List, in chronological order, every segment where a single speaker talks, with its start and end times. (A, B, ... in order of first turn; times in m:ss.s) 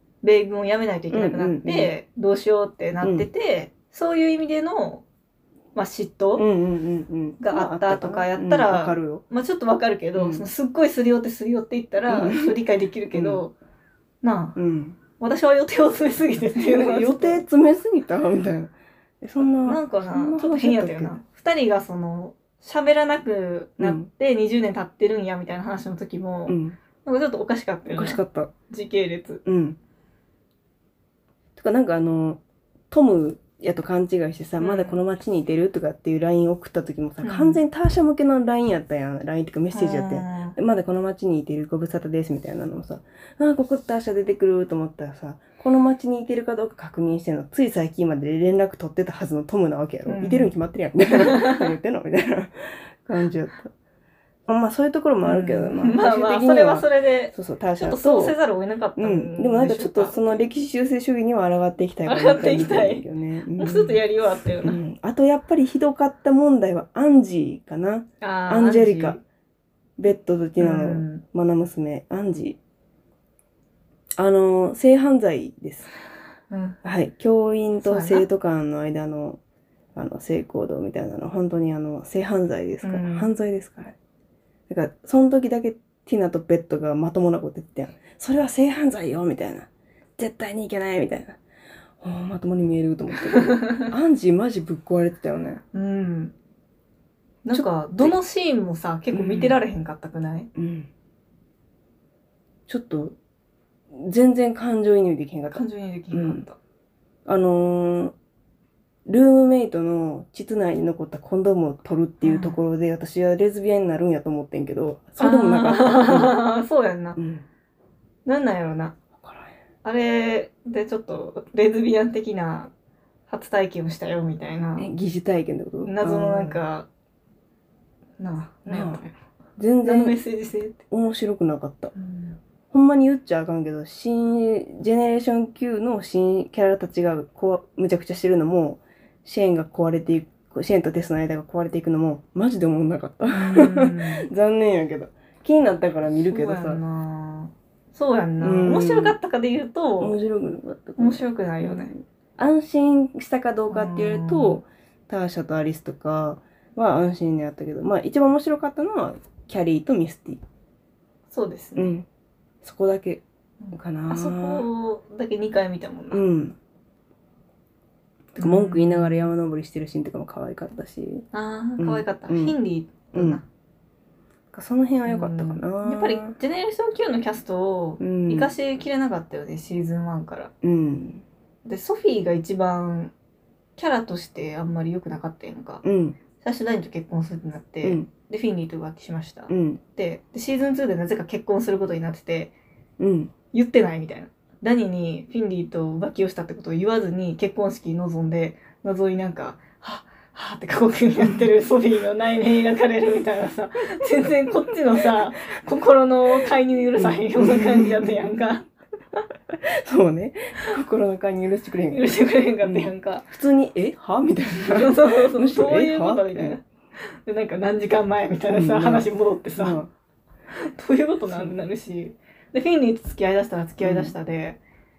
0:00.2-0:05.0 A
0:01.1-0:01.9 B
0:03.0-0:03.3 B
0:05.7-0:06.4 A
0:06.4-0:09.2 B
0:07.4-0:13.5 A
0:10.2-0:10.4 B
0:12.1-0:12.6 B
0:13.1-0:13.4 B
0:14.2-0:14.6 A
0:14.6-0:15.0 B
0:15.2-0:17.4 A
0:16.5-0:21.2 B
0:19.6-0:29.4 A
0:23.8-0:24.1 B
0:26.5-0:26.8 B
0:27.9-0:28.5 B
0:29.4-0:29.8 B
0:31.6-0:32.4 B
0:32.9-0:53.7 B
0:34.6-0:35.0 A
0:37.2-0:37.6 A
0:39.7-0:40.5 A
0:50.0-0:50.5 A
0:51.1-0:51.7 A
0:54.4-0:58.4 B
0:55.2-1:00.5 A
0:59.0-1:04.0 B
1:02.0-1:03.0 A
1:03.6-1:04.8 A
1:04.6-1:09.2 B
1:08.2-1:09.2 A
1:10.0-1:12.6 B
1:10.6-1:11.2 A
1:14.2-1:15.9 B
1:16.5-1:16.8 A
1:16.8-1:19.4 B
1:17.8-1:18.2 A
1:19.9-1:23.9 B
1:22.8-1:23.3 A
1:24.7-1:31.4 B
1:32.0-1:35.6 B
1:33.3-1:33.9 A
1:35.7-1:36.3 A
1:37.4-1:40.5 A
1:37.5-1:38.1 B
1:39.1-1:39.6 B
1:40.5-1:40.9 B
1:42.7-1:43.2 B
1:43.9-1:46.4 B
1:45.5-1:46.6 A
1:47.2-1:48.1 B
1:49.0-1:56.4 B
1:52.2-1:52.6 A
1:55.2-1:57.2 A
1:57.2-1:57.4 B
1:58.2-1:58.9 A
1:59.2-1:59.5 B
1:59.8-2:02.7 A
2:03.3-2:04.9 A
2:04.8-2:06.6 B
2:05.8-2:06.9 A
2:08.2-2:09.2 A
2:08.7-2:09.0 B
2:09.6-2:10.2 B
2:09.8-2:10.8 A
2:10.9-2:11.9 B
2:11.9-2:12.4 A
2:12.7-2:26.8 B
2:23.3-2:24.3 A
2:26.2-2:30.2 A
2:28.4-2:29.2 B
2:30.0-2:40.4 B
2:31.0-2:31.9 A
2:33.7-2:34.6 A
2:41.3-2:41.9 A
2:41.8-2:42.0 B
2:42.6-2:44.7 B
2:43.6-2:46.2 A
2:46.1-2:46.6 B
2:48.3-2:51.2 B
2:48.4-2:49.3 A
2:51.3-2:53.4 A
2:51.8-2:52.6 B
2:53.1-2:53.4 B
2:54.5-2:56.4 B
2:55.0-3:00.5 A
2:58.0-2:58.5 B
3:00.6-3:01.2 B
3:01.6-3:03.1 A
3:03.8-3:05.8 A
3:05.8-3:06.2 B
3:06.4-3:12.5 A
3:09.5-3:09.8 B
3:13.0-3:13.3 B
3:13.5-3:28.7 A
3:27.0-3:28.1 B
3:29.5-3:32.1 B
3:31.9-3:33.3 A
3:32.6-3:36.6 B
3:34.5-3:36.6 A
3:37.2-3:39.8 A
3:38.5-3:39.9 B
3:40.5-3:44.6 A
3:41.3-3:41.6 B
3:43.8-3:44.1 B